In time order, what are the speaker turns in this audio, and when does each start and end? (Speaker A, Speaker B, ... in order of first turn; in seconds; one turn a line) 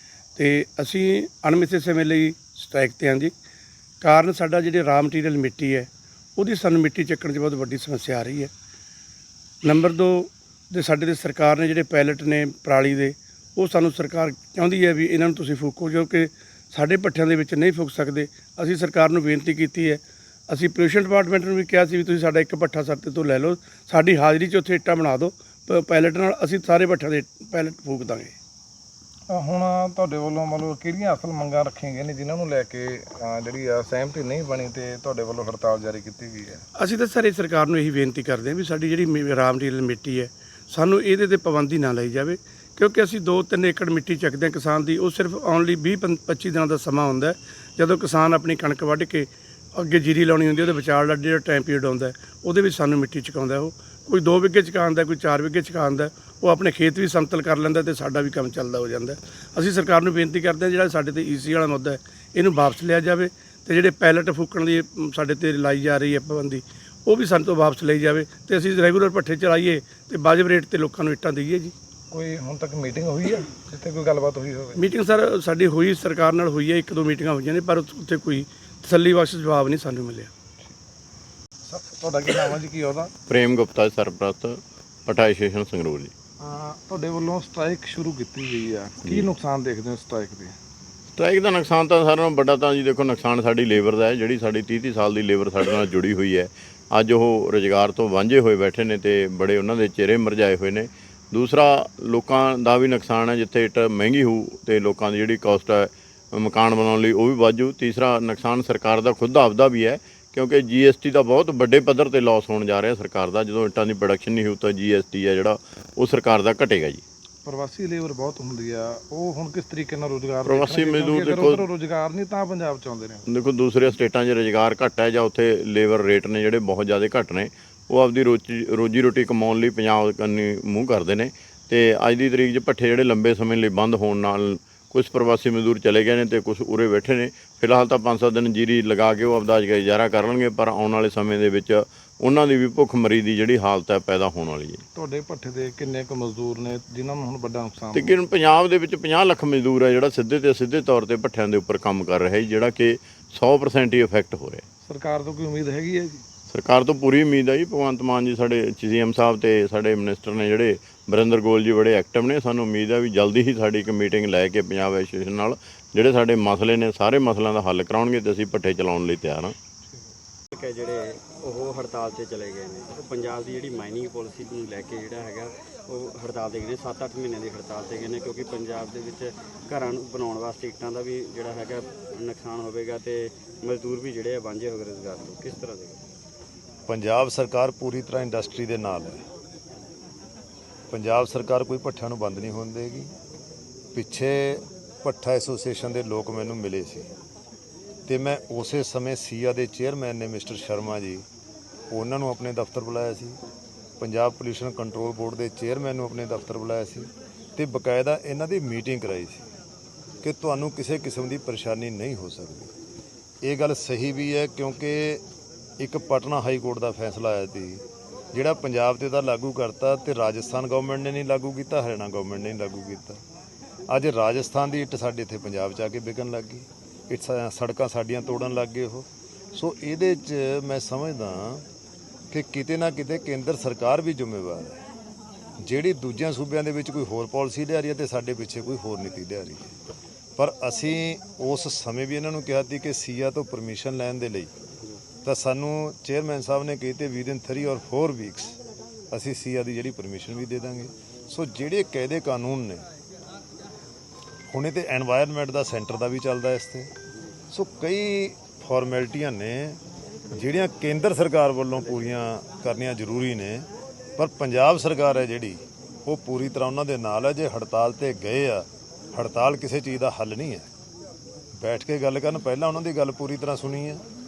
Speaker A: 0.4-3.3
Speaker A: 4.0-8.5
Speaker A: 9.6-28.3
Speaker B: 29.3-36.6
Speaker A: 36.8-71.7
Speaker B: 72.1-74.8
Speaker A: 74.8-80.3
Speaker B: 81.7-83.1
Speaker C: 83.3-86.1
Speaker B: 86.4-90.5
Speaker C: 91.2-117.0
Speaker B: 117.5-123.2
Speaker C: 120.5-121.7
Speaker C: 123.3-144.8
Speaker B: 144.9-148.2
Speaker C: 147.9-154.6
Speaker B: 154.8-156.2
Speaker C: 156.5-169.6
Speaker D: 170.5-186.0
Speaker E: 186.9-189.2
Speaker E: 190.9-193.1
Speaker E: 193.9-197.1
Speaker E: 198.1-201.2
Speaker E: 201.9-203.4
Speaker E: 204.0-209.4
Speaker E: 210.2-212.7
Speaker E: 213.4-215.2
Speaker E: 215.8-223.2
Speaker E: 223.9-231.7
Speaker E: 232.3-234.8
Speaker E: 235.6-239.7
Speaker E: 240.4-244.5
Speaker E: 245.2-248.6
Speaker E: 249.1-252.9
Speaker E: 254.5-256.9
Speaker E: 257.5-259.8
Speaker E: 260.3-270.7
Speaker E: 271.6-274.0